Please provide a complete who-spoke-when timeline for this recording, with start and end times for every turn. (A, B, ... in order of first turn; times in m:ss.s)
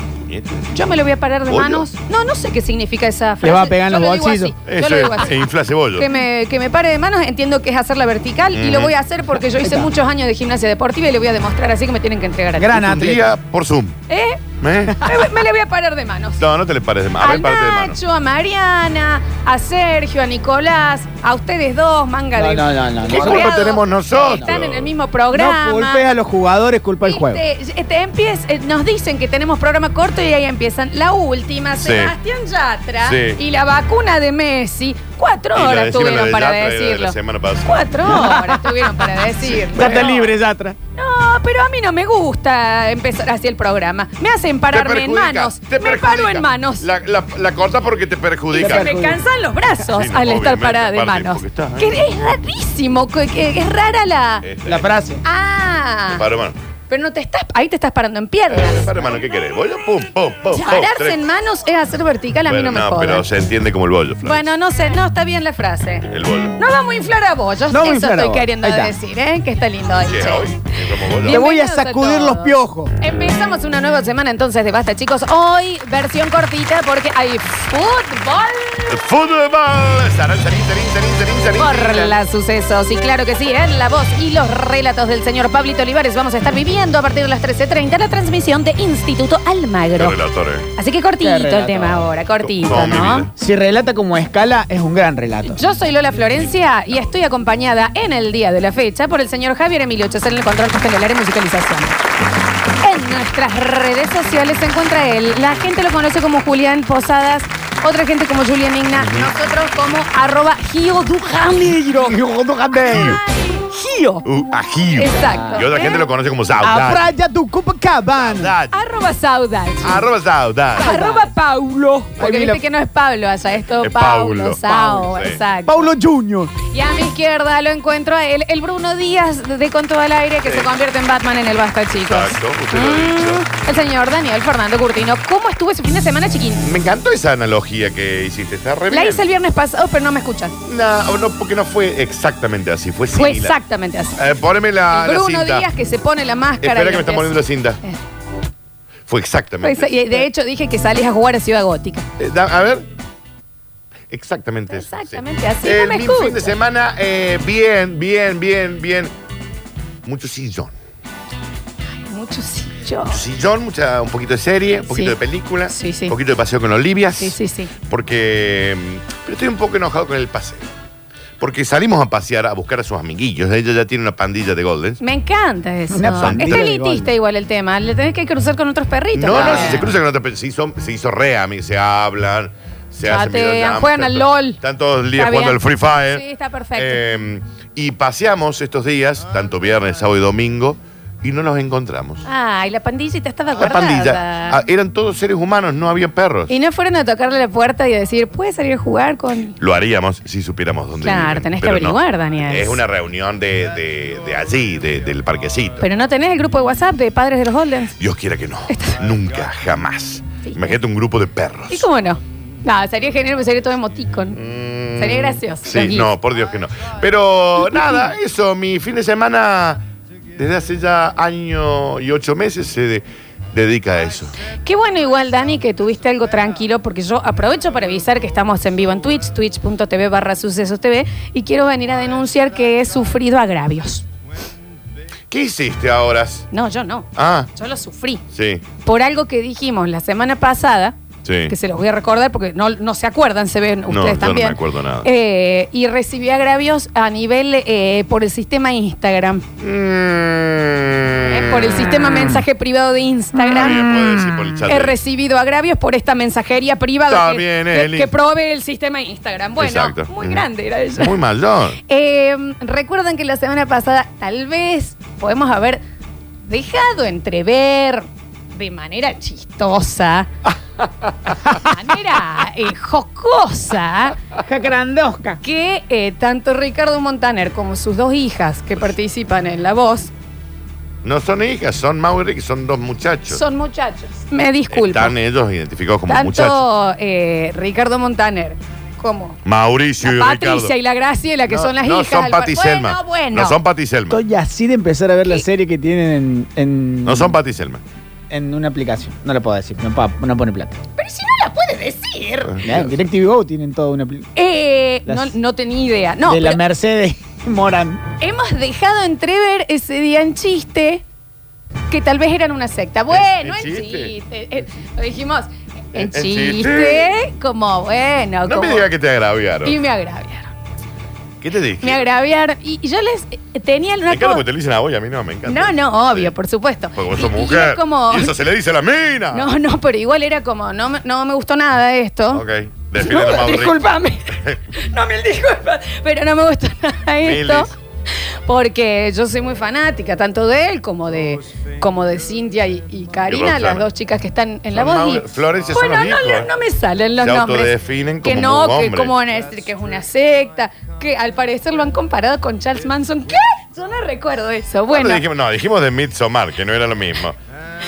0:00.2-0:00.7 A
0:00.7-0:12.9 B
0:01.5-0:01.9 A
0:03.4-0:04.5 C
0:04.6-0:06.1 A
0:08.5-0:08.9 A
0:09.6-0:09.9 C
0:12.5-0:13.3 C
0:12.7-0:14.0 A
0:14.1-0:16.4 B
0:14.6-0:15.2 A
0:16.4-0:18.0 A
0:17.2-0:26.0 B
0:22.4-0:23.6 C
0:23.1-0:24.9 A
0:25.3-0:27.4 C
0:27.0-0:40.3 B
0:31.8-0:32.1 A
0:33.0-0:33.4 A
0:35.5-0:38.1 A
0:38.1-0:40.8 C
0:39.4-0:40.1 A
0:40.9-0:46.9 B
0:44.7-0:49.0 A
0:48.5-0:54.5 B
0:48.5-0:49.2 C
0:49.8-0:52.0 A
0:54.4-0:54.9 A
0:54.7-0:55.2 C
0:55.2-0:56.2 B
0:56.1-0:56.6 A
0:56.9-0:58.9 B
0:58.5-1:01.2 A
1:00.5-1:03.2 B
1:02.4-1:04.5 A
1:04.2-1:19.0 B
1:06.1-1:06.6 A
1:07.7-1:08.9 C
1:10.0-1:11.4 A
1:11.3-1:12.9 C
1:18.9-1:22.2 A
1:21.6-1:30.2 B
1:29.9-1:30.7 A
1:30.7-1:33.3 B
1:31.2-1:32.1 C
1:32.4-1:33.3 A
1:33.3-1:35.6 C
1:35.4-1:42.0 B
1:42.8-1:52.2 B
1:49.0-1:49.3 A
1:51.9-1:53.2 C
1:52.8-1:54.2 B
1:52.9-1:53.2 A
1:54.2-1:57.1 A
1:55.0-1:56.1 B
1:55.3-1:55.7 C
1:56.6-1:58.5 C
1:58.2-1:58.8 A
1:58.7-2:00.0 B
1:59.8-2:01.0 A
2:00.8-2:05.9 B
2:00.8-2:01.2 C
2:02.2-2:02.6 C
2:03.7-2:05.4 A
2:05.6-2:06.5 C
2:06.6-2:16.6 B
2:10.4-2:10.7 A
2:12.0-2:13.5 A
2:16.6-2:19.2 A
2:18.9-2:20.5 B
2:20.6-2:23.6 A
2:23.1-2:24.2 B
2:24.2-2:25.6 A
2:24.9-2:28.0 B
2:26.6-2:27.8 A
2:29.1-2:30.2 A
2:29.6-2:32.1 B
2:32.2-2:32.8 A
2:34.1-2:39.1 A
2:34.7-2:36.5 B
2:40.0-2:40.7 A
2:42.0-2:43.2 B
2:43.1-2:50.6 A
2:44.9-2:45.1 B
2:45.7-2:46.2 B
2:47.2-2:47.7 B
2:51.4-2:55.0 A
2:55.0-2:59.9 B
2:55.9-2:57.1 C
2:56.2-2:56.6 A
2:59.1-3:06.2 A
2:59.3-2:59.8 C
3:03.0-3:04.6 B
3:05.2-3:07.0 B
3:06.7-3:12.2 A
3:12.2-3:14.6 B
3:13.5-3:16.5 A
3:16.5-3:19.5 B
3:19.6-3:25.8 A
3:21.0-3:22.8 B
3:25.8-3:27.9 B
3:28.0-3:31.9 A
3:28.7-3:29.0 B
3:30.4-3:30.8 B
3:31.7-3:34.4 B
3:34.3-3:39.8 A
3:35.0-3:36.1 B
3:37.6-3:38.0 B
3:40.4-3:44.3 A
3:44.6-3:54.0 B
3:55.3-3:56.5 A
3:56.5-3:58.2 B
3:57.2-3:57.5 A
3:58.3-3:58.6 A
3:58.8-4:01.0 B
4:01.2-4:01.5 A
4:01.5-4:09.4 B
4:03.9-4:05.1 A
4:09.6-4:12.1 A
4:11.2-4:13.9 B
4:13.4-4:15.0 A
4:13.6-4:14.5 C
4:14.6-4:21.2 B
4:17.1-4:18.1 A
4:19.6-4:21.8 A
4:21.8-4:25.8 B
4:26.4-4:30.3 B
4:31.4-4:34.2 B
4:34.4-4:35.4 C
4:35.4-4:40.1 B
4:41.0-4:43.4 A
4:43.3-4:45.1 B
4:44.7-4:46.6 A
4:46.1-4:49.4 B
4:49.4-4:50.7 A
4:50.0-4:53.6 B
4:51.5-4:54.2 A
4:54.1-4:57.4 C
4:57.0-4:57.8 A
4:58.3-5:00.8 C
5:01.0-5:02.6 B
5:02.5-5:02.9 A
5:02.6-5:04.3 C
5:04.4-5:06.6 B
5:05.0-5:05.3 C
5:06.2-5:08.0 C
5:08.2-5:11.0 B
5:11.9-5:18.9 B
5:13.1-5:14.1 A
5:15.9-5:17.2 A
5:18.4-5:19.8 A
5:19.6-5:20.5 B
5:21.4-5:22.0 A
5:21.8-5:24.4 B
5:24.1-5:26.3 A
5:25.5-5:28.3 B
5:26.9-5:29.5 A
5:29.3-5:32.4 B
5:32.3-5:33.9 A
5:33.0-5:55.2 B
5:37.2-5:37.7 A
5:43.3-5:43.8 A
5:44.7-5:46.5 A
5:47.2-5:49.1 A
5:54.9-5:57.4 A